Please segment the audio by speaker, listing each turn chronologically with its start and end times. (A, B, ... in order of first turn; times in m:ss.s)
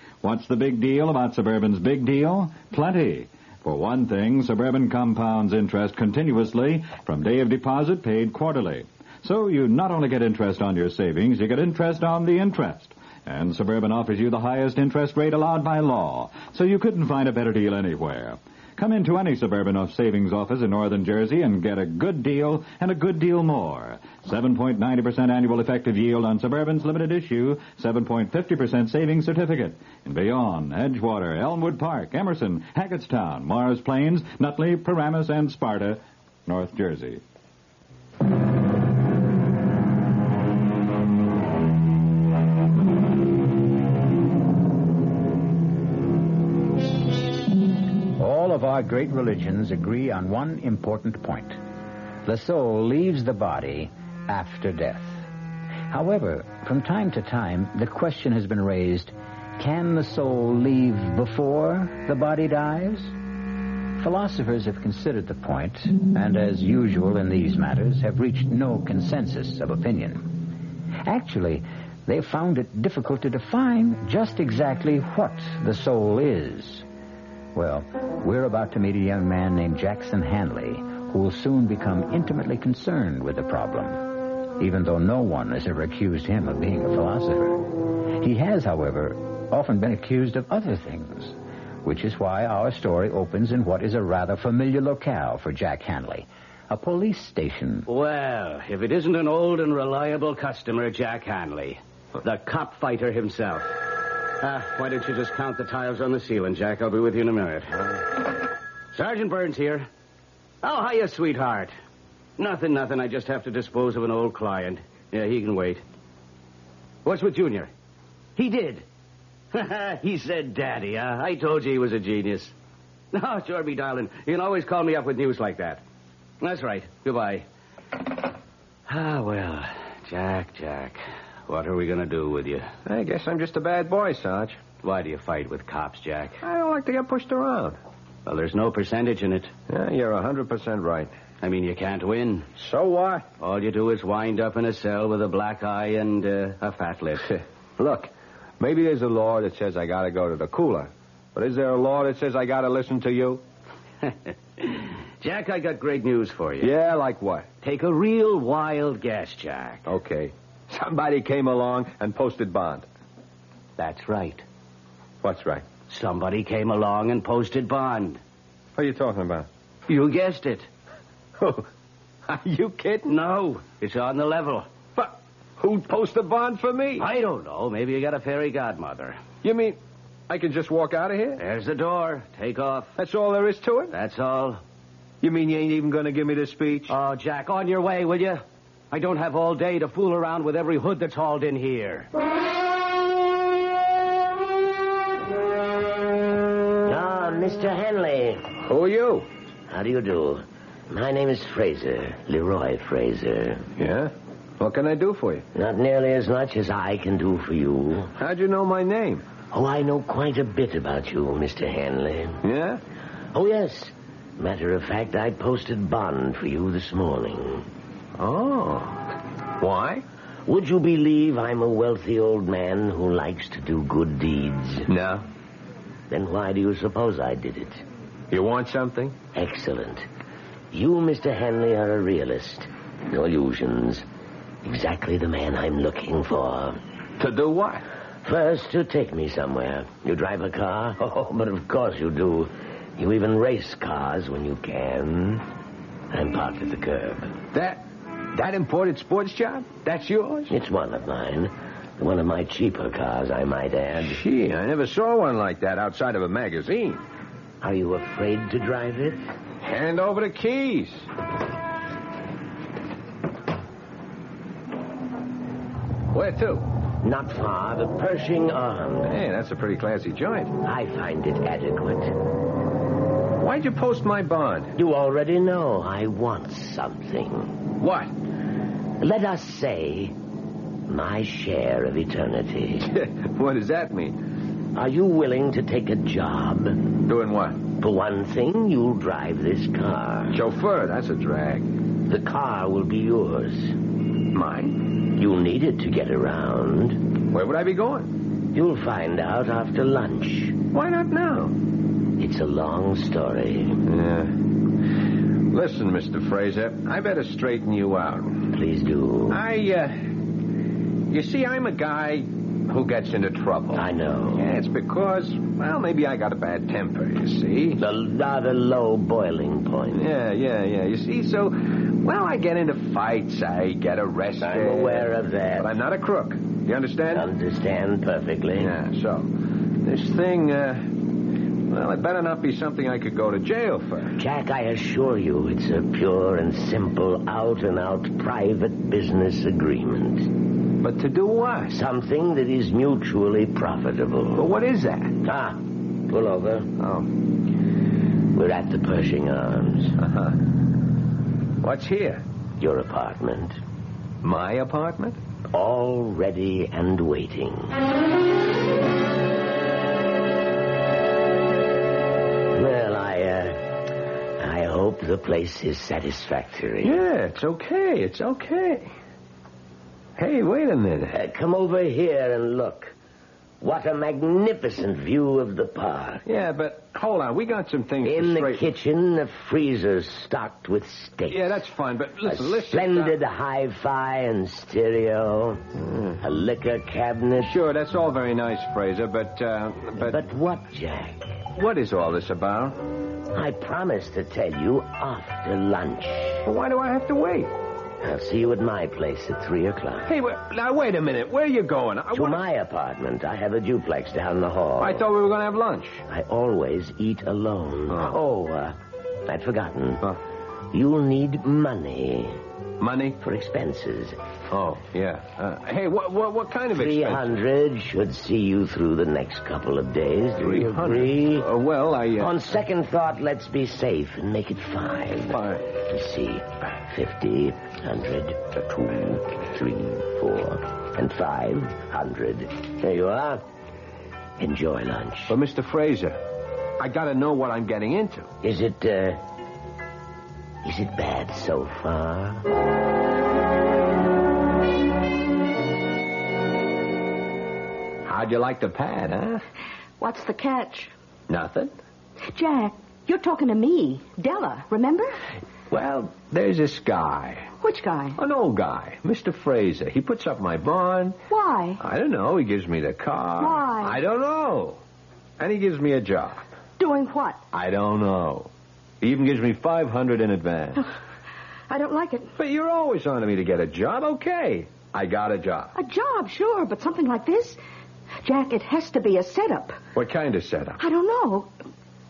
0:00.2-0:37.2 A
0:48.2-0:51.6 B
0:52.3-0:55.2 B
0:55.9-1:03.1 B
1:04.0-1:10.4 B
1:11.0-1:16.8 B
1:17.6-1:37.9 B
1:37.9-1:43.7 C
1:44.4-1:48.0 C
1:48.9-1:49.9 C
1:50.6-1:51.7 C
1:52.4-1:55.8 C
1:57.0-1:57.7 C
1:58.4-1:58.8 C
1:59.5-2:02.5 C
2:03.1-2:05.8 C
2:06.4-2:07.4 C
2:08.9-2:12.7 C
2:12.8-2:14.7 D
2:14.8-2:16.4 C
2:16.4-2:17.8 D
2:18.3-2:19.5 C
2:19.7-2:21.1 D
2:21.4-2:22.5 C
2:22.6-2:23.3 D
2:23.4-2:27.3 C
2:27.2-2:33.4 D
2:34.1-2:36.7 C
2:36.6-2:37.5 D
2:37.6-2:39.8 C
2:39.9-2:42.9 D
2:43.8-2:44.4 C
2:45.2-2:45.7 D
2:45.9-2:48.2 C
2:48.8-2:49.5 D
2:49.9-2:50.7 C
2:51.4-2:51.6 D
2:52.3-2:53.1 D
2:53.1-2:54.7 C
2:55.0-2:57.1 D
2:57.0-2:59.2 C
2:59.4-2:59.8 D
3:00.3-3:01.4 D
3:01.4-3:02.9 C
3:03.0-3:03.9 D
3:03.9-3:04.6 C
3:05.2-3:06.9 D
3:06.9-3:12.1 C
3:16.9-3:18.5 E
3:18.6-3:19.3 D
3:19.7-3:23.6 E
3:23.8-3:25.4 D
3:25.5-3:28.1 E
3:28.2-3:29.2 D
3:29.5-3:32.4 E
3:32.4-3:32.8 D
3:33.3-3:37.7 E
3:38.2-3:39.1 D
3:39.6-3:40.0 D
3:40.5-3:44.9 E
3:44.9-3:45.2 D
3:46.1-3:47.8 E
3:48.3-3:49.2 D
3:49.3-3:50.1 E
3:50.7-3:54.0 E
3:54.6-3:56.8 E
3:57.2-3:57.8 D
3:58.2-4:05.4 E
4:06.1-4:07.3 E
4:07.5-4:07.8 D
4:08.3-4:10.5 D
4:10.5-4:14.2 E
4:14.0-4:17.0 D
4:17.6-4:19.2 E
4:19.6-4:21.1 D
4:26.1-4:26.6 D
4:27.0-4:29.1 E
4:29.0-4:30.6 D
4:30.6-4:32.1 E
4:33.4-4:34.7 D
4:34.8-4:37.6 E
4:37.8-4:38.1 D
4:39.0-4:40.1 E
4:40.9-4:42.9 E
4:42.9-4:44.2 D
4:44.8-4:46.8 E
4:47.1-4:47.6 D
4:47.8-4:50.4 E
4:50.3-4:51.7 D
4:52.1-4:53.8 E
4:54.3-4:54.9 D
4:55.0-4:57.0 E
4:57.3-4:58.1 D
4:58.5-5:00.6 E
5:00.7-5:01.5 D
5:02.2-5:03.8 E
5:03.9-5:04.4 D
5:05.5-5:08.5 D
5:08.5-5:09.4 E
5:09.3-5:10.0 D
5:11.1-5:17.8 D
5:13.7-5:14.5 E
5:17.8-5:20.0 E
5:19.9-5:27.3 D
5:24.4-5:25.7 E
5:27.1-5:28.7 E
5:28.6-5:29.3 D
5:29.8-5:31.0 D
5:31.7-5:34.2 D
5:34.2-5:40.3 E
5:40.8-5:41.8 D
5:41.7-5:44.5 E
5:44.4-5:45.1 D
5:45.2-5:46.7 E
5:46.8-5:47.1 D
5:48.3-5:50.0 E
5:50.0-5:50.4 D
5:51.6-5:52.2 D
5:52.6-5:53.6 E
5:54.2-5:55.2 D
5:55.5-5:57.8 E
6:02.5-6:07.0 E
6:06.8-6:08.9 D
6:10.2-6:11.2 D
6:11.1-6:12.9 E
6:13.6-6:16.3 E
6:16.3-6:18.6 D
6:18.0-6:21.6 E
6:21.3-6:23.2 D
6:22.2-6:25.6 E
6:25.9-6:26.2 D
6:26.2-6:27.5 E
6:27.4-6:30.2 D
6:30.0-6:31.3 E
6:31.6-6:32.8 D
6:33.3-6:36.4 E
6:36.5-6:37.5 D
6:38.0-6:40.1 E
6:40.1-6:42.4 D
6:42.1-6:45.0 E
6:44.8-6:46.0 D
6:46.1-6:50.1 E
6:47.9-6:48.2 D
6:50.7-6:52.4 E
6:52.8-6:53.2 D
6:53.2-6:54.2 E
6:54.5-6:57.4 D
6:56.7-7:01.5 E
7:00.4-7:02.3 D
7:02.2-7:13.4 E
7:05.3-7:05.6 D
7:14.4-7:15.4 E
7:15.3-7:16.2 D
7:16.8-7:18.3 D
7:18.4-7:19.2 E
7:20.6-7:22.4 E
7:28.1-7:29.4 D
7:30.0-7:30.9 F
7:31.3-7:31.7 D
7:32.3-7:35.2 F
7:35.7-7:37.5 D
7:37.6-7:38.2 F
7:38.2-7:41.2 D
7:41.3-7:41.8 F
7:41.8-7:44.8 D
7:43.4-7:44.0 F
7:45.4-7:46.4 D
7:46.8-7:47.4 F
7:47.5-7:48.5 D
7:49.0-7:50.8 D
7:51.7-7:52.3 F
7:52.4-7:55.7 D
7:55.7-7:57.6 F
7:58.2-7:59.8 F
8:00.0-8:00.8 D
8:00.8-8:01.5 F